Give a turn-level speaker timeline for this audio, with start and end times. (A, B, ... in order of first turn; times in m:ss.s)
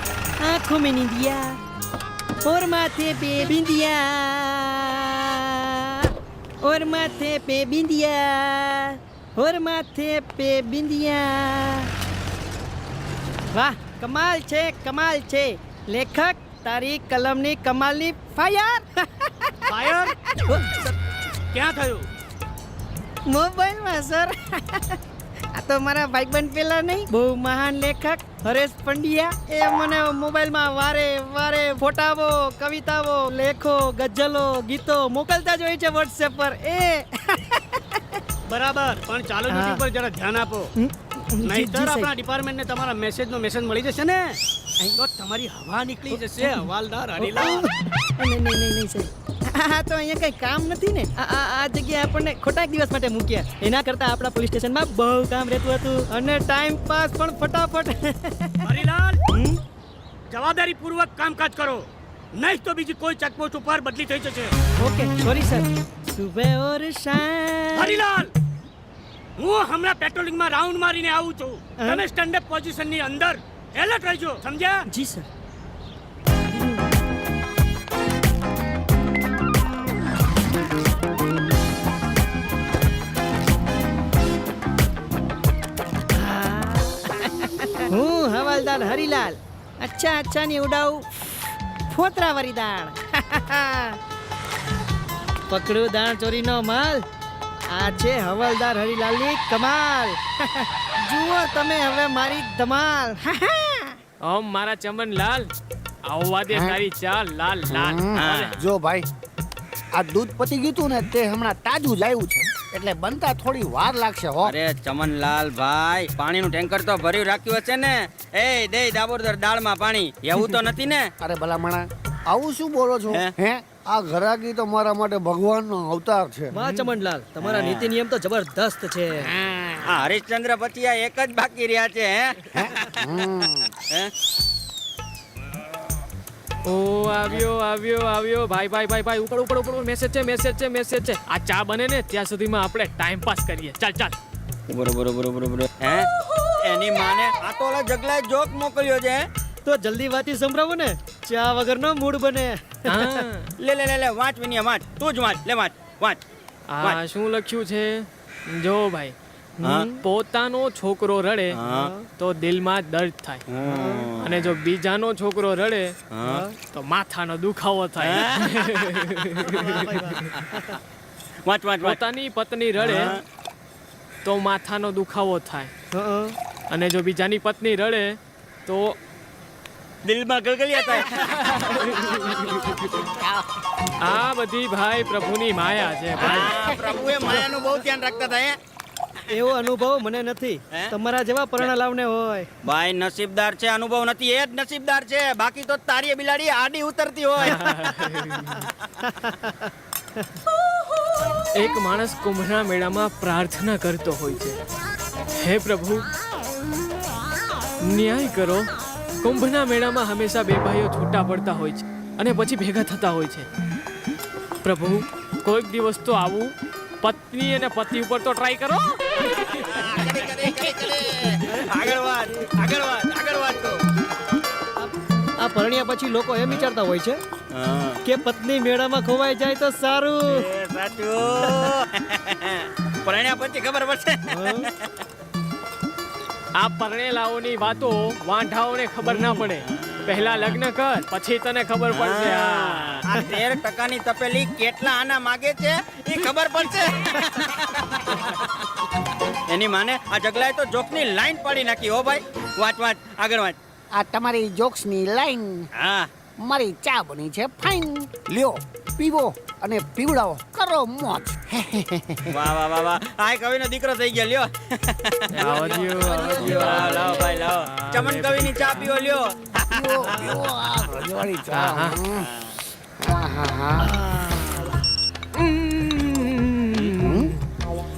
0:00.4-0:01.6 A
0:02.4-0:06.1 A
0:06.6-0:11.9 A
0:13.5-0:20.9 A
0:19.7-0:20.1 B
0:21.5-0:22.1 B
0:23.3-0:25.0 A
0:25.5-0:38.2 A
0:38.5-0:40.7 B
0:39.5-0:39.8 A
0:40.8-0:42.1 A
0:41.4-0:44.4 B
0:45.0-0:47.7 B
0:46.1-0:46.7 A
0:47.2-0:58.7 A
0:58.6-0:59.3 B
0:59.3-0:59.6 A
1:00.3-1:04.5 B
1:04.8-1:08.0 A
1:07.8-1:08.3 B
1:09.4-1:14.8 B
1:14.9-1:15.3 A
1:26.2-1:31.1 A
1:31.9-1:34.0 A
1:35.5-1:37.0 A
1:37.7-1:44.0 A
1:44.2-1:45.5 C
1:46.0-1:48.5 C
1:46.5-1:46.8 D
1:47.7-1:49.1 D
1:48.2-1:48.7 E
1:49.9-1:54.6 D
1:54.4-2:01.1 E
2:01.2-2:06.5 D
2:06.5-2:09.3 A
2:06.5-2:06.9 C
2:07.4-2:07.9 E
2:09.2-2:10.0 D
2:09.9-2:13.3 E
2:12.5-2:13.7 D
2:13.8-2:14.1 E
2:16.7-2:24.2 C
2:24.7-2:29.3 E
2:29.6-2:33.2 A
2:32.9-2:33.5 C
2:33.6-2:36.2 E
2:36.7-2:39.2 C
2:39.6-2:40.0 A
2:39.6-2:39.9 E
2:40.0-2:41.6 C
2:41.5-2:41.9 E
2:41.7-2:42.1 A
2:42.2-2:43.4 C
2:43.5-2:44.5 E
2:43.7-2:44.1 A
2:44.2-2:45.9 C
2:46.1-2:46.4 E
2:46.3-2:46.6 A
2:46.6-2:50.3 C
2:48.0-2:49.6 E
2:49.4-2:50.7 A
2:51.4-2:52.0 E
2:51.8-2:53.2 C
2:52.8-2:53.2 E
2:54.2-2:55.7 C
2:55.9-2:56.4 A
2:56.7-2:59.0 C
3:00.0-3:02.2 E
3:01.1-3:02.8 C
3:01.7-3:03.4 D
3:04.0-3:06.6 C
3:06.2-3:08.6 E
3:06.4-3:07.5 D
3:09.3-3:09.6 E
3:09.3-3:12.5 A
3:12.6-3:19.0 E
3:17.4-3:18.6 C
3:19.1-3:19.7 A
3:21.6-3:24.6 C
3:25.4-3:26.0 C
3:27.9-3:28.7 C
3:29.2-3:33.5 C
3:34.6-3:39.8 C
3:39.6-3:43.8 E
3:44.8-3:47.2 A
3:47.5-3:48.0 E
3:48.0-3:50.5 A
3:50.3-3:54.9 E
3:54.3-3:54.7 A
3:56.6-4:03.1 C
3:59.1-4:00.1 E
4:01.9-4:08.7 E
4:09.5-4:13.6 E
4:13.9-4:15.7 D
4:15.8-4:16.1 E
4:16.4-4:22.3 D
4:22.3-4:31.1 E
4:25.3-4:29.0 C
4:25.5-4:27.3 D
4:29.7-4:32.3 D
4:30.1-4:30.4 A
4:31.5-4:32.0 C
4:32.2-4:32.6 E
4:33.0-4:33.9 D
4:33.8-4:34.8 A
4:35.4-4:37.4 C
4:36.9-4:37.3 D